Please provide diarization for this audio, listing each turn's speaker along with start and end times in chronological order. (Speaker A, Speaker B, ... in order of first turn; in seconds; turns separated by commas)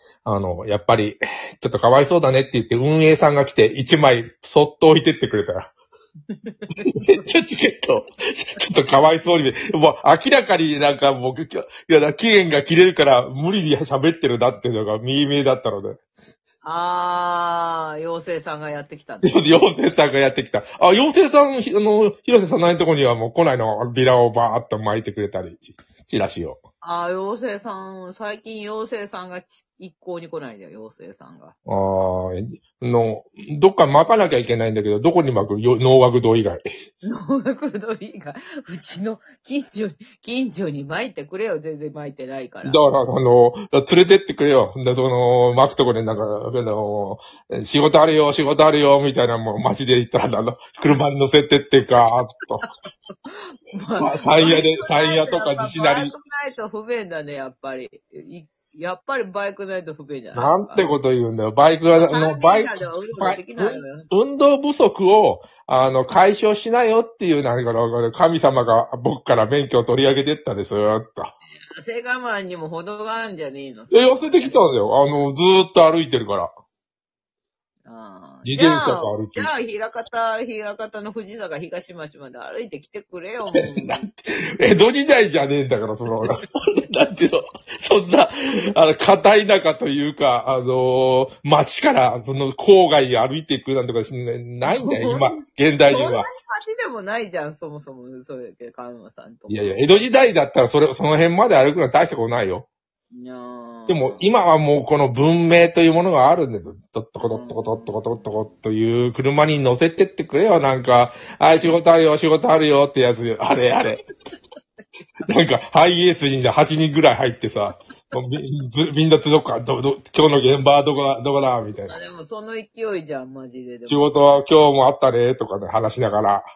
Speaker A: 0.2-5.7, Speaker B: 6.3-6.7, Speaker A: 6.8-16.0, Speaker B: 16.6-19.4, Speaker A: 19.2-26.6, Speaker B: 26.8-31.5, Speaker A: 31.6-36.7, Speaker B: 37.0-42.8, Speaker A: 42.6-52.6, Speaker B: 53.2-60.9, Speaker A: 54.0-56.1, Speaker A: 60.3-71.3, Speaker B: 62.0-64.1, Speaker B: 71.7-74.6, Speaker A: 73.9-76.5, Speaker B: 77.8-84.1, Speaker A: 78.5-79.5, Speaker A: 83.5-96.3, Speaker B: 94.6-99.8, Speaker A: 99.5-102.7, Speaker B: 103.1-104.2, Speaker A: 103.9-114.0, Speaker B: 107.2-108.0, Speaker A: 115.2-121.9, Speaker B: 121.7-124.2, Speaker A: 123.9-126.4